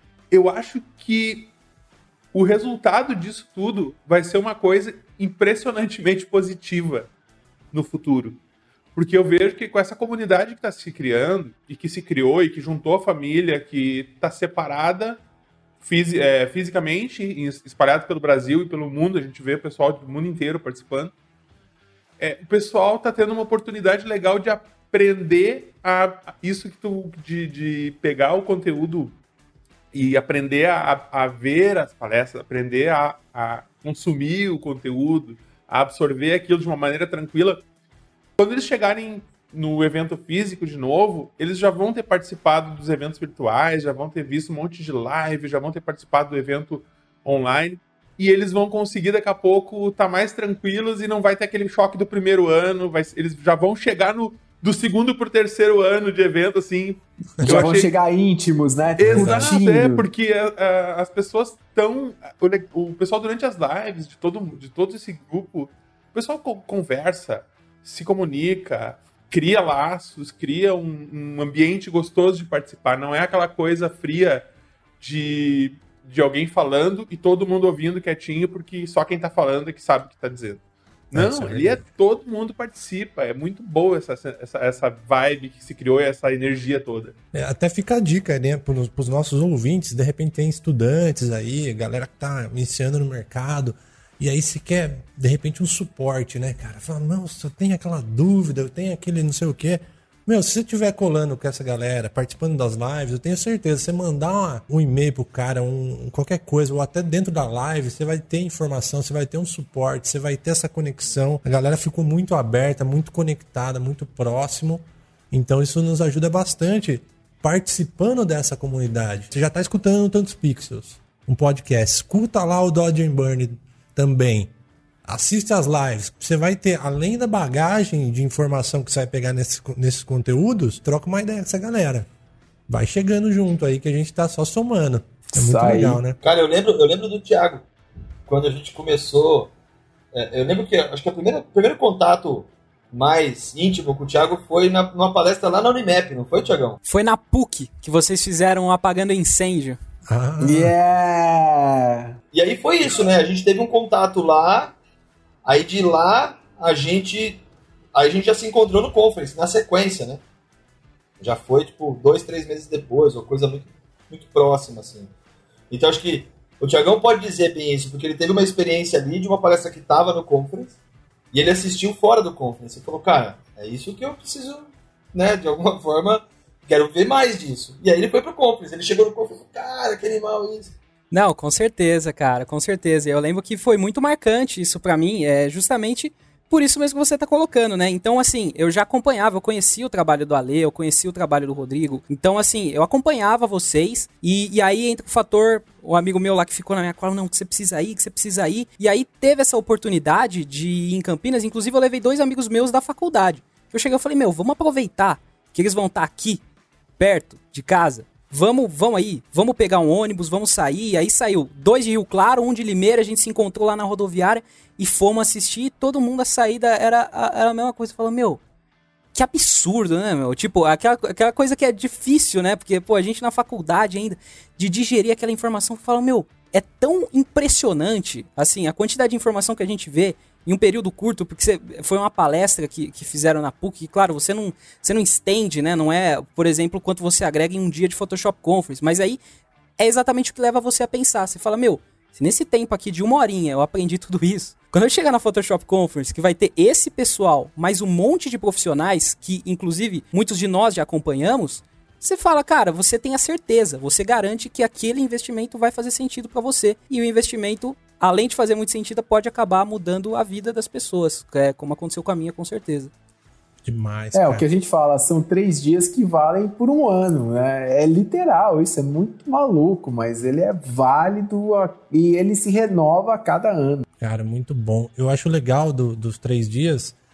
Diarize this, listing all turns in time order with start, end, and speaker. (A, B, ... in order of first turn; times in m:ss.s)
0:00.3-0:01.5 A
0:02.3-0:07.1 A
0:07.7-0:08.4 A
0:09.0-0:15.2 A
0:15.8-0:21.1 A
0:22.2-0:29.2 A
0:29.9-0:37.6 A
0:38.4-0:57.9 A
0:57.4-1:00.1 B
0:59.0-1:14.5 A
0:59.1-0:59.5 C
1:15.0-1:27.2 A
1:21.1-1:21.8 C
1:27.3-2:04.5 C
2:05.1-2:12.1 C
2:12.7-2:16.2 C
2:15.3-2:16.0 B
2:16.2-2:17.6 D
2:18.3-2:19.5 D
2:20.1-2:26.8 D
2:26.9-2:29.8 E
2:30.1-2:30.7 C
2:30.4-2:32.2 B
2:32.3-2:34.8 D
2:35.4-2:37.4 D
2:37.9-2:40.2 D
2:41.2-2:45.1 D
2:45.7-2:50.8 D
2:51.3-3:00.8 D
3:01.1-3:26.4 E
3:27.0-3:38.4 E
3:39.2-3:59.2 E
3:59.8-4:22.9 E
4:23.6-4:24.4 C
4:24.1-4:33.9 B
4:34.0-4:37.0 C